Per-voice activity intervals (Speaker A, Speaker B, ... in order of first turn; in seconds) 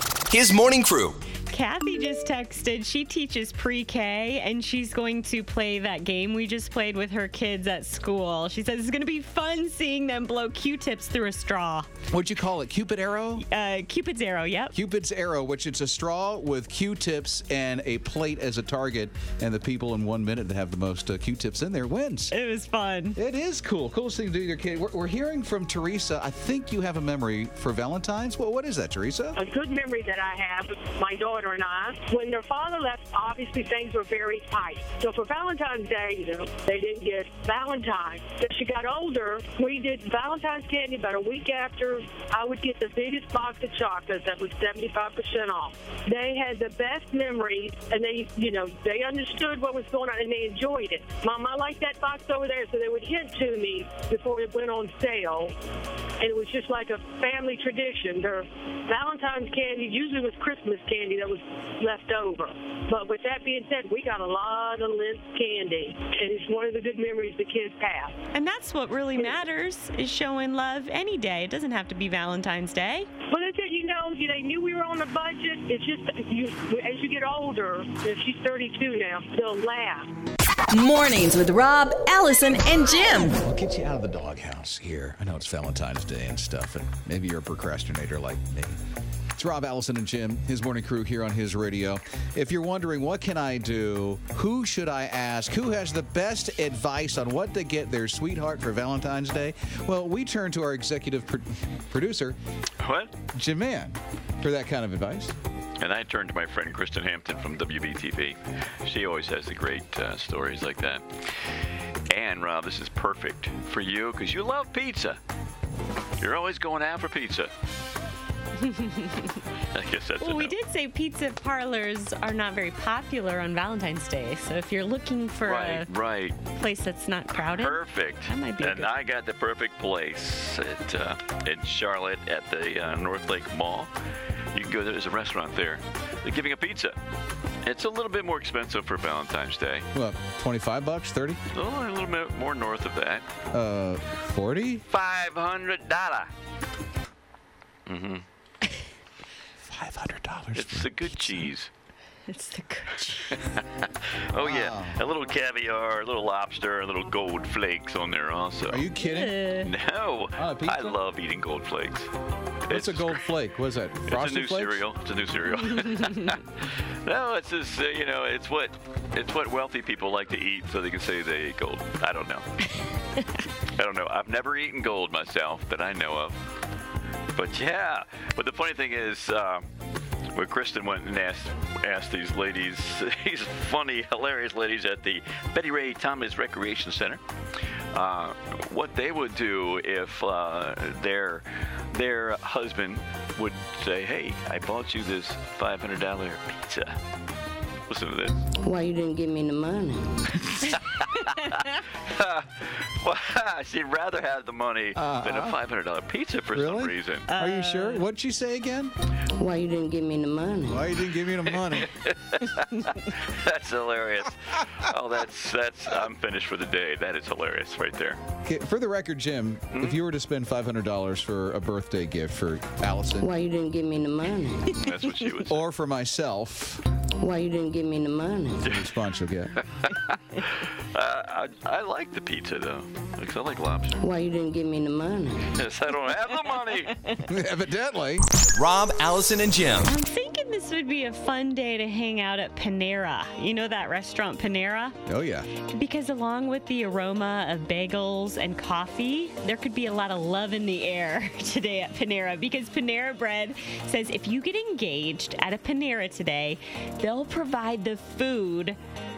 Speaker A: 0.3-1.2, 238.5-239.9
Speaker B: 1.5-11.9, 13.4-14.8, 22.3-23.2, 68.3-73.1, 118.6-119.4, 120.2-125.9, 126.5-128.9, 152.3-153.4, 158.9-159.7, 207.3-208.0, 239.8-245.0, 245.6-258.8
Speaker C: 12.1-13.4, 14.7-22.3, 23.1-29.4, 83.4-88.8, 89.3-102.4, 103.3-105.3, 139.9-141.4, 143.5-144.8, 149.6-151.5, 154.4-155.0, 158.7-159.5, 160.3-161.0, 162.7-164.8, 204.9-205.6, 206.5-208.9, 210.7-211.9, 218.4-223.3, 225.4-226.8, 228.6-229.6, 237.3-238.2, 245.1-245.5
Speaker D: 29.4-55.5, 56.2-68.2, 73.3-80.1
Speaker E: 80.7-83.4
Speaker F: 102.8-103.1, 105.8-115.2, 116.2-117.5, 119.7-120.5, 125.4-126.4, 127.4-133.9, 134.5-137.0, 137.6-139.9, 141.5-143.2, 144.9-146.3, 147.9-148.2, 150.5-151.7, 153.3-158.9, 159.6-162.1, 162.7-163.3, 164.1-172.4, 173.7-176.4, 177.3-179.7, 180.3-187.2, 187.9-197.0, 197.9-198.4, 200.5-207.3, 211.7-218.2, 219.7-220.0, 224.7-225.6, 229.6-234.0, 235.5-237.0
Speaker G: 198.6-200.1, 209.4-211.0, 223.2-224.8, 227.2-228.7, 234.0-235.5